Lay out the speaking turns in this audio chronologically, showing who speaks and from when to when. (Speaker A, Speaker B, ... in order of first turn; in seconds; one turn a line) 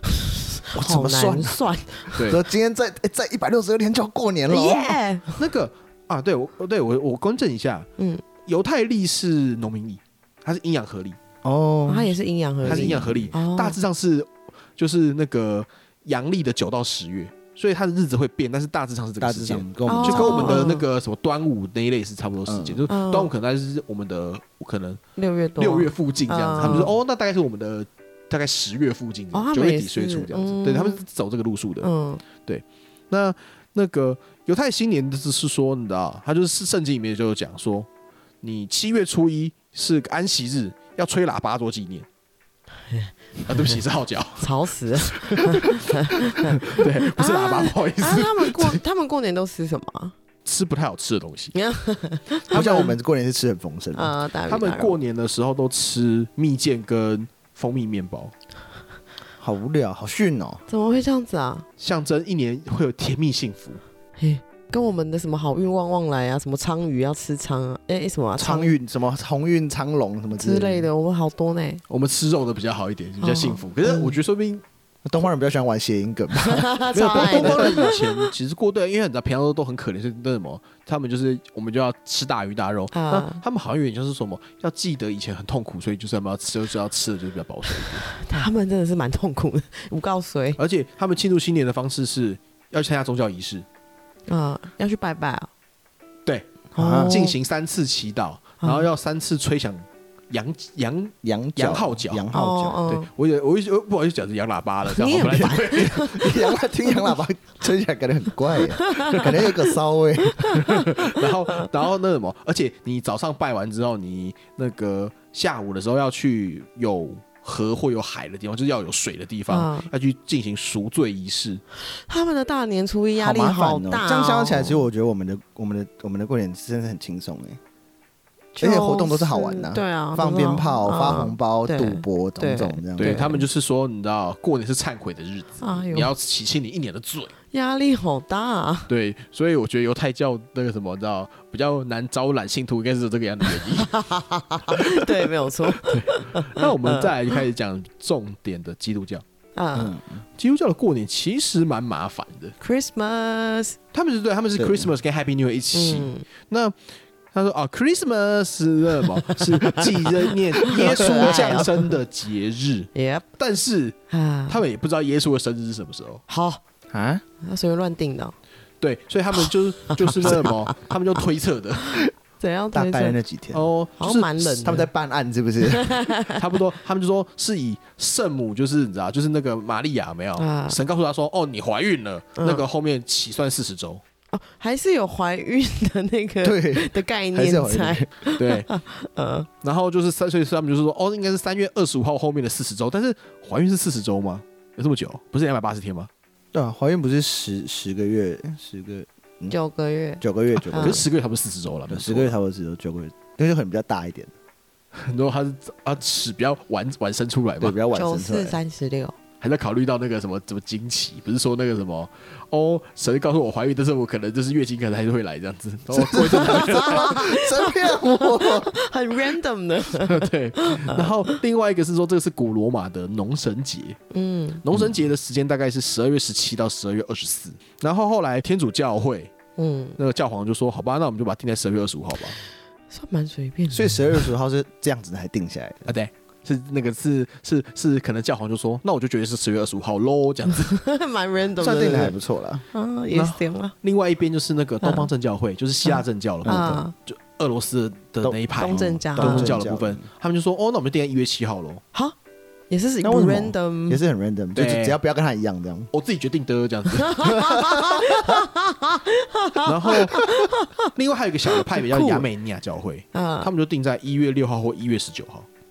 Speaker A: 0.2-2.1
Speaker B: 0.7-5.0
Speaker C: 2.1-2.4
Speaker A: 4.5-5.3
Speaker C: 5.3-7.9
Speaker A: 8.0-8.2
Speaker C: 8.4-11.2
Speaker B: 11.4-13.3
Speaker A: 11.9-13.8
Speaker C: 12.6-25.0
Speaker B: 19.2-20.6
Speaker A: 19.9-20.8
Speaker B: 22.5-22.8
Speaker A: 22.9-23.3
Speaker A: 25.1-26.9
Speaker C: 25.6-37.9
Speaker B: 26.6-26.9
Speaker A: 29.3-31.0
Speaker A: 31.8-32.2
Speaker C: 38.4-42.1
Speaker A: 42.9-43.8
Speaker C: 43.5-48.8
Speaker A: 44.4-50.1
Speaker C: 50.4-51.5
Speaker A: 51.5-52.9
Speaker C: 52.5-52.9
Speaker B: 52.5-54.1
Speaker A: 53.9-55.0
Speaker C: 54.5-58.3
Speaker B: 59.4-60.6
Speaker A: 60.7-61.6
Speaker C: 61.8-63.8
Speaker A: 64.2-68.7
Speaker B: 68.4-70.9
Speaker A: 70.4-71.8
Speaker C: 71.9-74.6
Speaker A: 73.2-74.2
Speaker B: 75.0-78.0
Speaker A: 76.4-78.3
Speaker C: 76.9-88.2
Speaker A: 82.9-83.4
Speaker A: 88.1-90.6
Speaker C: 90.6-93.7
Speaker A: 94.3-95.5
Speaker C: 96.2-102.3
Speaker B: 96.7-97.2
Speaker A: 96.7-97.4
Speaker A: 98.6-98.9
Speaker B: 101.2-102.8
Speaker A: 102.3-103.1
Speaker C: 102.9-106.2
Speaker A: 104.9-107.1
Speaker B: 105.3-110.6
Speaker A: 108.7-109.7
Speaker A: 110.2-111.7
Speaker C: 110.6-121.6
Speaker A: 119.5-119.9
Speaker A: 121.9-124.8
Speaker B: 123.2-127.6
Speaker A: 128.6-133.4
Speaker B: 128.6-133.3
Speaker C: 133.0-137.3
Speaker A: 135.6-136.1
Speaker A: 137.5-138.9
Speaker C: 138.9-144.0
Speaker A: 143.5-147.3
Speaker C: 144.7-149.2
Speaker A: 149.5-150.0
Speaker B: 149.7-150.2
Speaker C: 150.4-152.5
Speaker A: 152.6-153.8
Speaker C: 153.9-156.7
Speaker B: 154.6-154.9
Speaker A: 155.7-156.2
Speaker C: 157.3-164.0
Speaker A: 159.2-161.9
Speaker B: 160.9-161.7
Speaker A: 162.9-163.2
Speaker A: 164.1-164.6
Speaker C: 164.5-166.2
Speaker A: 166.3-166.6
Speaker B: 166.9-167.2
Speaker A: 167.4-168.3
Speaker C: 168.8-172.0
Speaker A: 169.9-170.8
Speaker A: 172.4-173.2
Speaker B: 172.7-173.7
Speaker C: 173.5-174.7
Speaker A: 174.0-174.9
Speaker B: 174.6-176.0
Speaker A: 175.7-176.4
Speaker C: 176.3-184.0
Speaker A: 180.4-180.8
Speaker A: 182.4-182.6
Speaker A: 184.3-189.5
Speaker B: 186.4-188.1
Speaker C: 188.3-188.7
Speaker C: 189.6-196.1
Speaker B: 196.5-199.5
Speaker A: 199.5-201.0
Speaker B: 200.2-201.1
Speaker C: 200.5-202.3
Speaker B: 201.9-204.3
Speaker C: 204.9-207.8
Speaker B: 207.6-208.6
Speaker A: 207.9-209.1
Speaker C: 209.4-217.2
Speaker B: 215.9-218.7
Speaker A: 216.3-221.4
Speaker C: 219.9-224.0
Speaker A: 224.1-224.6
Speaker C: 224.6-229.3
Speaker A: 229.6-230.0
Speaker C: 230.0-232.4
Speaker A: 232.9-234.2
Speaker B: 233.7-235.9
Speaker C: 235.9-240.8
Speaker A: 240.6-242.2
Speaker B: 241.6-242.6
Speaker A: 242.7-243.7
Speaker C: 243.1-251.8
Speaker A: 244.8-245.1
Speaker A: 245.8-246.9
Speaker B: 246.4-246.8
Speaker B: 248.2-250.0
Speaker A: 248.5-249.6
Speaker A: 252.7-254.0
Speaker B: 253.0-255.9
Speaker C: 254.5-255.0
Speaker C: 255.9-257.3
Speaker A: 256.9-260.9
Speaker B: 257.2-258.4
Speaker C: 259.6-260.3
Speaker C: 260.8-265.5
Speaker A: 261.6-262.2
Speaker A: 263.1-263.5